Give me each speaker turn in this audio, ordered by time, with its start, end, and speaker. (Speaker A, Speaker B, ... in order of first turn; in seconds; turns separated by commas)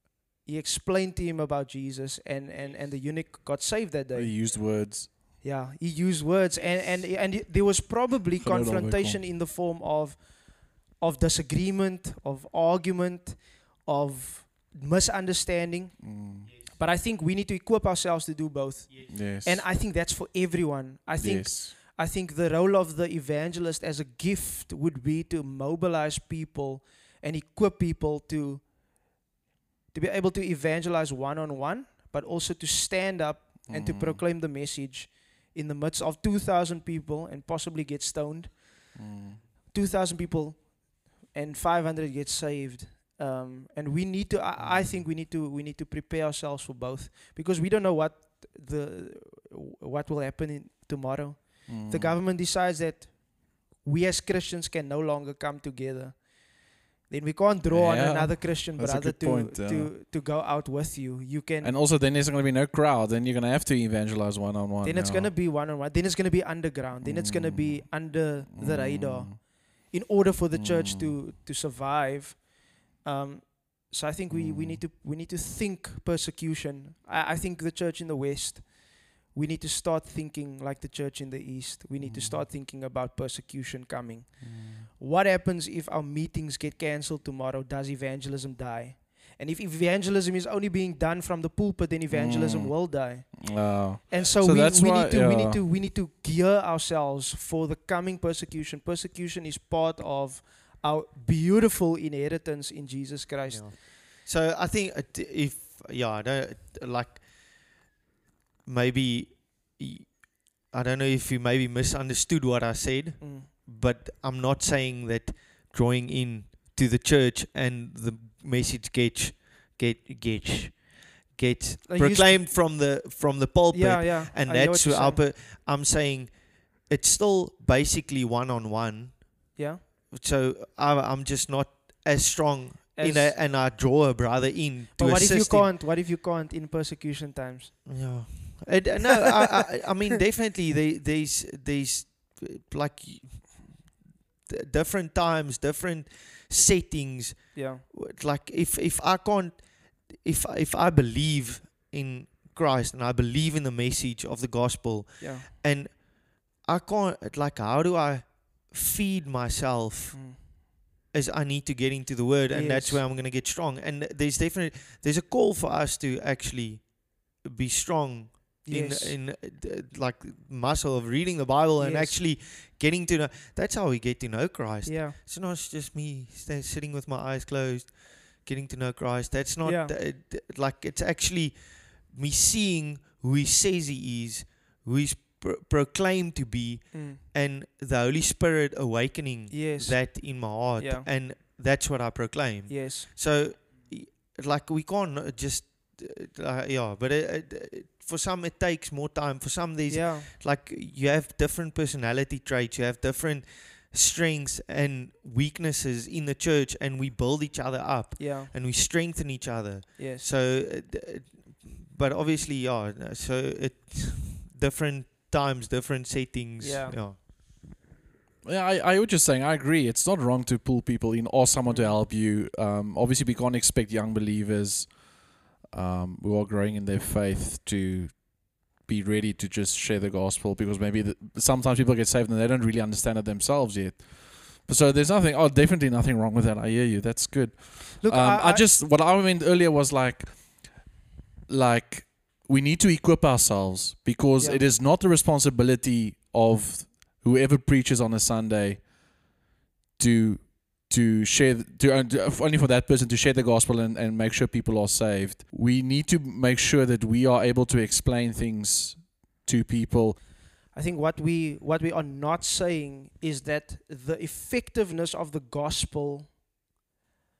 Speaker A: 0.5-4.8, Speaker B: 4.1-5.2, Speaker A: 5.4-29.1, Speaker B: 8.4-9.3, Speaker B: 16.0-16.5, Speaker B: 19.1-19.7, Speaker B: 21.2-21.7, Speaker A: 29.9-39.0, Speaker B: 33.7-34.2, Speaker B: 39.0-39.4, Speaker A: 39.7-61.7, Speaker B: 51.7-52.2, Speaker B: 57.7-59.9, Speaker B: 61.6-65.3, Speaker A: 64.8-103.7, Speaker B: 67.0-69.4, Speaker B: 70.5-71.1, Speaker B: 74.3-74.8, Speaker B: 82.0-82.4, Speaker B: 84.4-84.9, Speaker B: 92.1-95.6, Speaker C: 103.5-107.8, Speaker C: 108.7-135.7, Speaker A: 113.2-113.5, Speaker A: 121.9-122.5, Speaker A: 123.7-125.2, Speaker A: 129.6-129.8, Speaker A: 133.0-133.4, Speaker A: 135.0-138.2, Speaker C: 137.9-217.2, Speaker A: 147.5-147.8, Speaker A: 155.2-155.5, Speaker A: 160.1-160.4, Speaker A: 162.5-163.0, Speaker A: 168.7-169.2, Speaker A: 171.8-172.2, Speaker A: 174.8-175.2, Speaker A: 179.6-179.9, Speaker A: 186.9-187.2, Speaker A: 189.5-191.1, Speaker A: 192.7-193.1, Speaker A: 199.9-200.3, Speaker A: 208.2-208.5, Speaker A: 210.0-210.3, Speaker A: 216.6-217.0, Speaker B: 218.4-240.9, Speaker A: 221.7-222.0, Speaker A: 238.0-238.7, Speaker B: 241.5-249.3, Speaker B: 250.0-260.2, Speaker A: 260.7-266.4